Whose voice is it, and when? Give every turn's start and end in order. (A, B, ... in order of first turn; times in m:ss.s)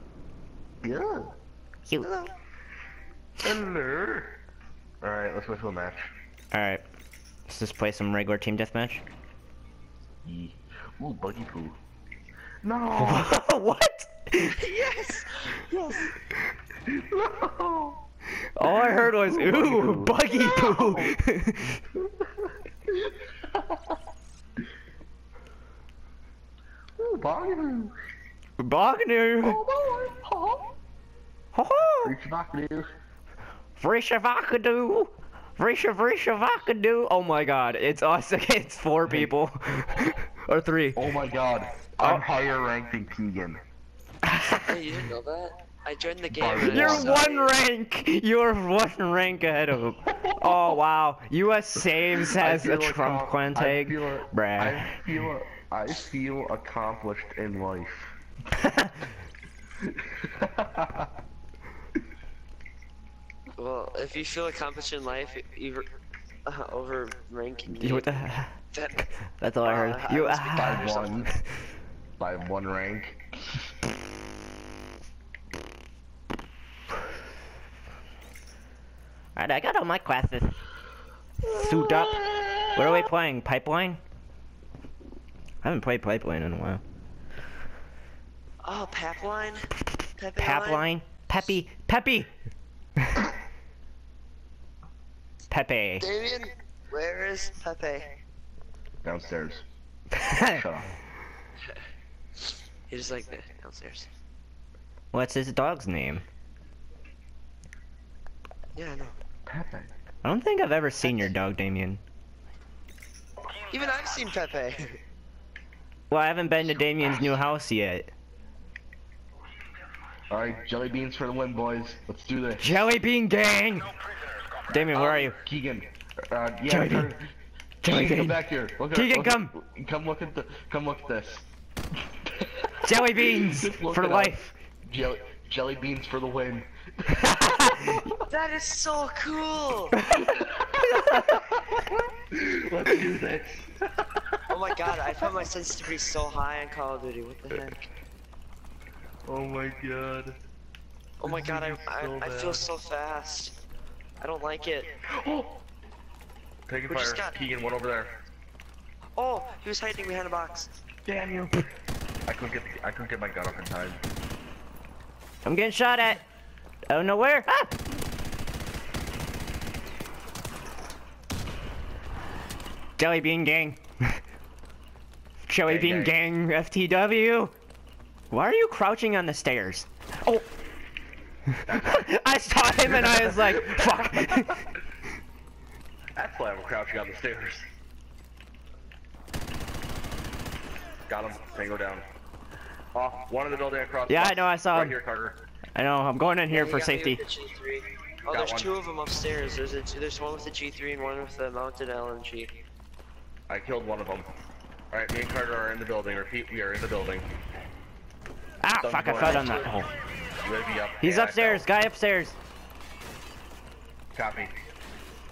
0:00.8-0:01.3 A
0:01.9-0:02.3 B
0:03.4-0:04.4 A
0:05.0-0:06.1 A
0:06.5-0:06.8 B
0:07.5-0:09.0 B
0:10.2-0:11.8 A
0:12.6-0:13.3 A
0:13.0-0:14.6 B
0:14.5-0:16.1 C
0:16.8-0:18.0 A
0:18.6-0:21.8 B
0:18.6-0:21.2 A
0:21.9-0:23.9 A
0:27.0-0:27.9 A
0:28.6-0:29.6 B
0:29.4-0:30.7 A
0:31.5-0:32.1 B
0:32.0-0:32.9 A
0:33.8-0:41.0 B
0:39.0-0:39.3 A
0:40.9-0:43.6 A
0:42.0-0:42.3 B
0:44.2-0:44.6 B
0:44.6-0:47.5 C
0:46.3-0:47.2 A
0:46.5-0:55.0 B
0:50.0-0:50.8 A
0:52.1-0:58.1 A
0:58.6-0:59.0 B
0:59.8-1:01.1 A
1:03.6-1:05.9 C
1:06.4-1:09.1 C
1:07.7-1:08.5 B
1:09.4-1:10.9 B
1:09.6-1:11.3 C
1:10.5-1:11.3 A
1:12.2-1:13.2 A
1:19.4-1:20.6 B
1:21.4-1:24.0 B
1:21.4-1:23.1 A
1:25.6-1:26.8 B
1:28.6-1:30.9 C
1:30.4-1:32.3 B
1:35.5-1:36.1 B
1:36.0-1:38.1 C
1:39.0-1:39.6 A
1:40.2-1:40.6 B
1:40.4-1:40.9 A
1:42.9-1:44.1 C
1:45.1-1:46.2 B
1:48.8-1:49.2 C
1:49.5-1:49.9 A
1:50.2-1:52.0 B
1:53.7-1:55.0 C
1:56.1-1:58.1 B
2:00.3-2:02.9 A
2:02.6-2:03.9 B
2:04.7-2:05.4 B
2:04.9-2:05.3 C
2:05.4-2:07.3 A
2:06.7-2:07.2 B
2:07.8-2:09.5 B
2:07.8-2:11.5 A
2:12.2-2:18.2 A
2:12.8-2:14.5 B
2:17.2-2:18.0 B
2:18.3-2:20.0 C
2:20.3-2:24.4 A
2:21.0-2:21.3 B
2:24.5-2:27.9 C
2:24.9-2:25.3 A
2:29.2-2:30.4 A
2:31.2-2:33.5 C
2:31.2-2:32.7 A
2:34.2-2:34.9 C
2:35.1-2:35.6 A
2:36.7-2:38.2 A
2:36.9-2:37.4 C
2:39.2-2:40.7 C
2:41.1-2:41.6 A
2:42.3-2:44.0 A
2:45.4-2:46.2 B
2:46.9-2:47.7 B
2:53.0-2:54.2 B
2:55.5-2:57.5 B
2:55.6-2:56.1 A
2:58.3-3:00.5 B
3:01.7-3:02.1 A
3:01.7-3:04.6 B
3:02.8-3:04.6 A
3:06.2-3:07.7 A
3:11.1-3:12.0 A
3:12.9-3:15.4 A
3:14.1-3:15.0 B
3:15.8-3:17.2 B
3:16.5-3:22.6 C
3:18.3-3:18.7 A
3:23.5-3:24.3 A
3:24.9-3:27.3 A
3:28.6-3:29.9 B
3:28.8-3:29.7 A
3:30.4-3:31.7 A
3:31.0-3:32.4 B
3:34.1-3:34.5 A